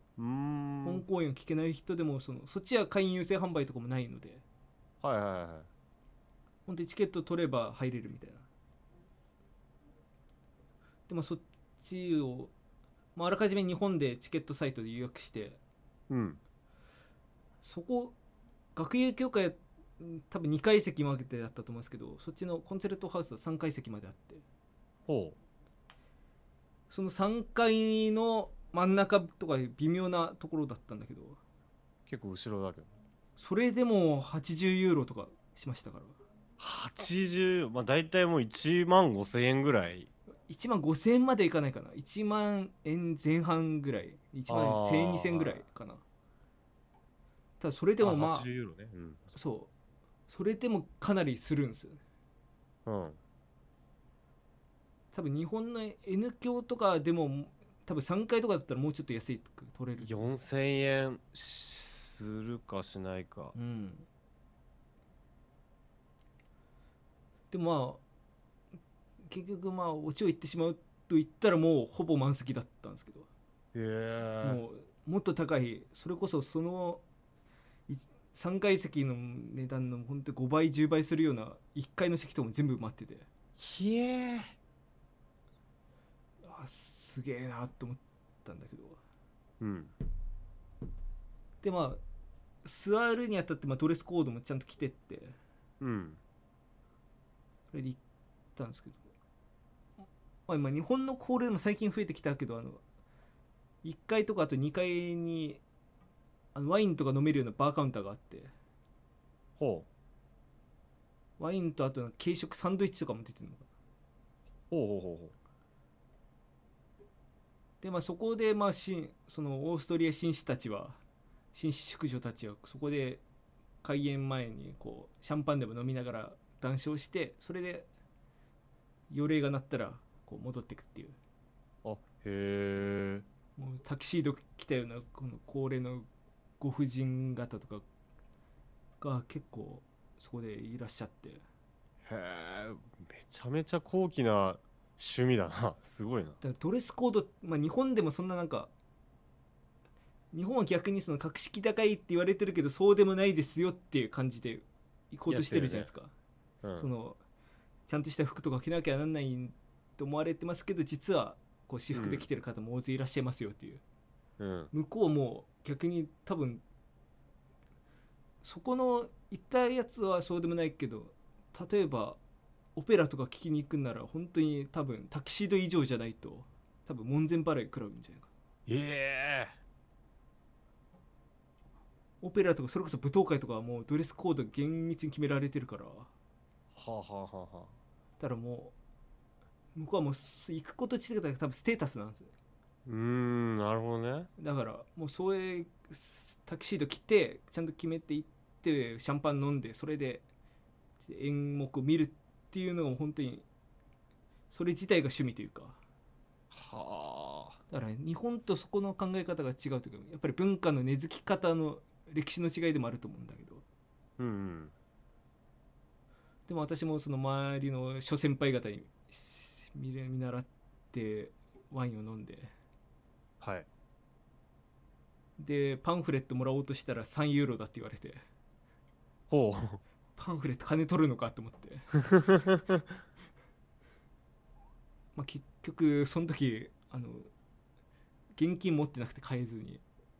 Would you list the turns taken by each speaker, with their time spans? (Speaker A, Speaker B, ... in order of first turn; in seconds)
Speaker A: 0.2-1.0, 5.0-5.7, 16.1-16.4, 25.1-25.4, 32.1-32.9, 36.6-40.1, 44.5-45.6, 48.0-49.4, 52.9-53.2, 60.0-63.5, 73.7-74.6, 83.6-84.5, 89.6-89.9, 95.8-96.2, 109.6-109.9, 114.7-115.3, 131.8-133.3, 142.1-146.4, 155.3-155.9, 161.9-162.3, 164.4-164.7, 178.7-179.6, 186.8-187.8, 192.9-194.3, 206.5-207.6, 214.2-214.7, 223.4-223.7, 229.3-229.8
Speaker B: 0.8-4.4, 6.7-8.5, 11.1-12.5, 13.2-15.6, 17.6-18.1, 18.8-24.4, 26.9-31.4, 33.4-36.2, 40.5-46.0, 47.6-48.5, 49.3-49.7, 50.3-52.0, 55.1-60.4, 63.5-64.1, 67.5-68.0, 69.3-73.3, 74.4-77.0, 77.9-83.3, 86.4-89.0, 91.6-92.0, 92.7-95.4, 97.7-98.0, 98.6-99.0, 100.5-102.8, 103.8-105.6, 106.5-108.5, 111.4-113.7, 117.8-121.0, 121.5-123.2, 123.8-127.9, 129.1-131.2, 133.6-136.1, 136.6-137.8, 139.0-141.4, 146.4-148.7, 150.3-156.1, 156.8-157.2, 157.9-163.8, 164.7-166.6, 168.4-172.2, 172.8-178.3, 182.2-186.1, 188.2-188.7, 189.8-192.3, 194.4-200.3, 201.0-203.5, 204.5-205.8, 207.7-213.6, 216.5-222.5, 225.4-228.2, 230.2-232.0, 235.2-237.3, 238.4-239.8